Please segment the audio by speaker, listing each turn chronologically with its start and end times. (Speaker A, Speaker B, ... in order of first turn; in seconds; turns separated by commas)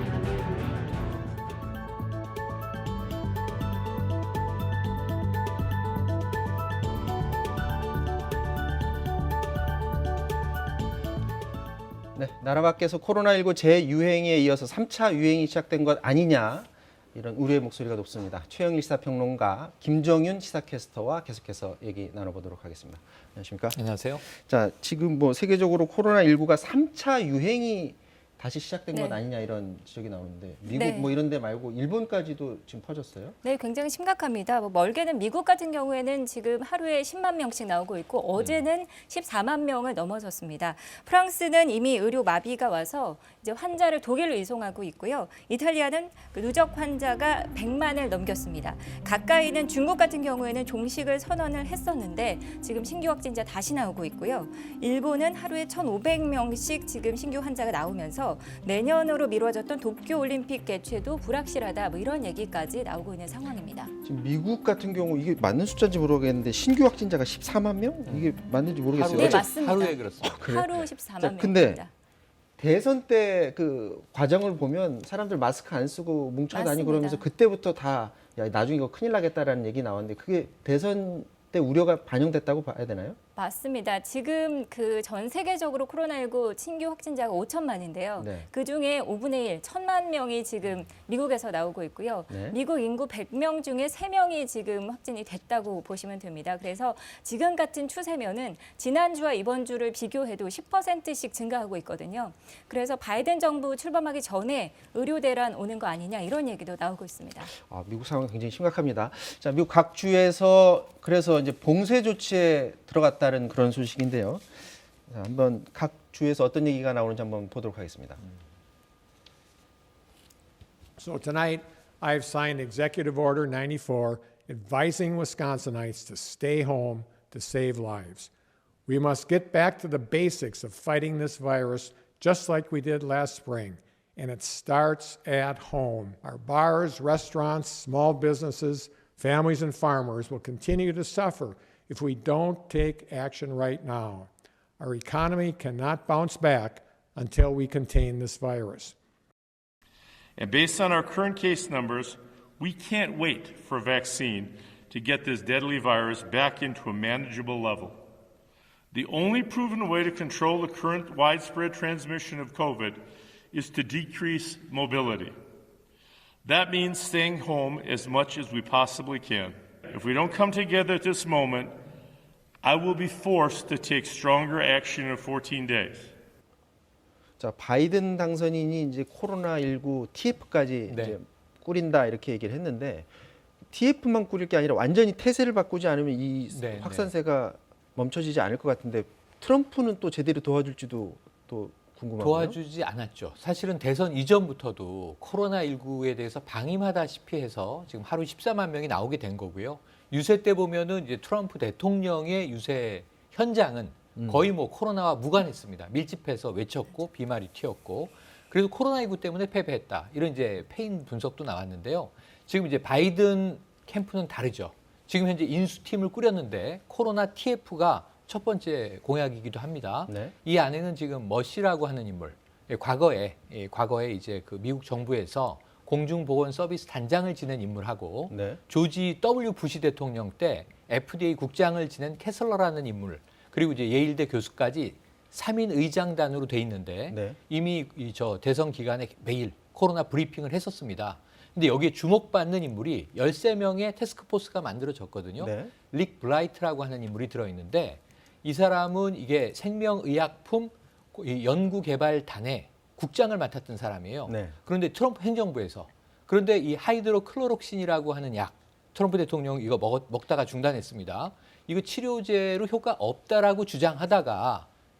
Speaker A: 12.2-33.4, Speaker B: 23.7-24.2, Speaker C: 28.9-29.2, Speaker C: 30.7-31.1, Speaker C: 33.4-63.9, Speaker A: 64.0-69.5, Speaker B: 68.1-68.3, Speaker B: 68.9-70.4, Speaker C: 69.1-71.9, Speaker A: 70.2-71.8, Speaker A: 72.6-83.2, Speaker C: 76.5-77.2, Speaker C: 83.3-107.5, Speaker A: 88.2-88.5, Speaker A: 92.3-92.6, Speaker A: 107.6-114.5, Speaker A: 115.1-118.2, Speaker D: 121.0-128.3, Speaker D: 128.9-148.9, Speaker E: 150.4-154.1, Speaker D: 150.7-152.2, Speaker D: 152.7-154.5, Speaker E: 154.9-157.9, Speaker D: 156.2-156.7, Speaker E: 158.9-163.0, Speaker E: 163.5-165.3, Speaker E: 166.4-171.7, Speaker E: 172.6-176.0, Speaker A: 177.4-183.1, Speaker B: 180.9-181.2, Speaker A: 183.7-192.6, Speaker B: 186.5-187.1, Speaker B: 192.2-264.7, Speaker A: 204.2-204.4, Speaker A: 220.1-220.3, Speaker A: 228.3-228.6, Speaker A: 237.1-237.4, Speaker A: 245.4-245.7, Speaker A: 254.3-254.5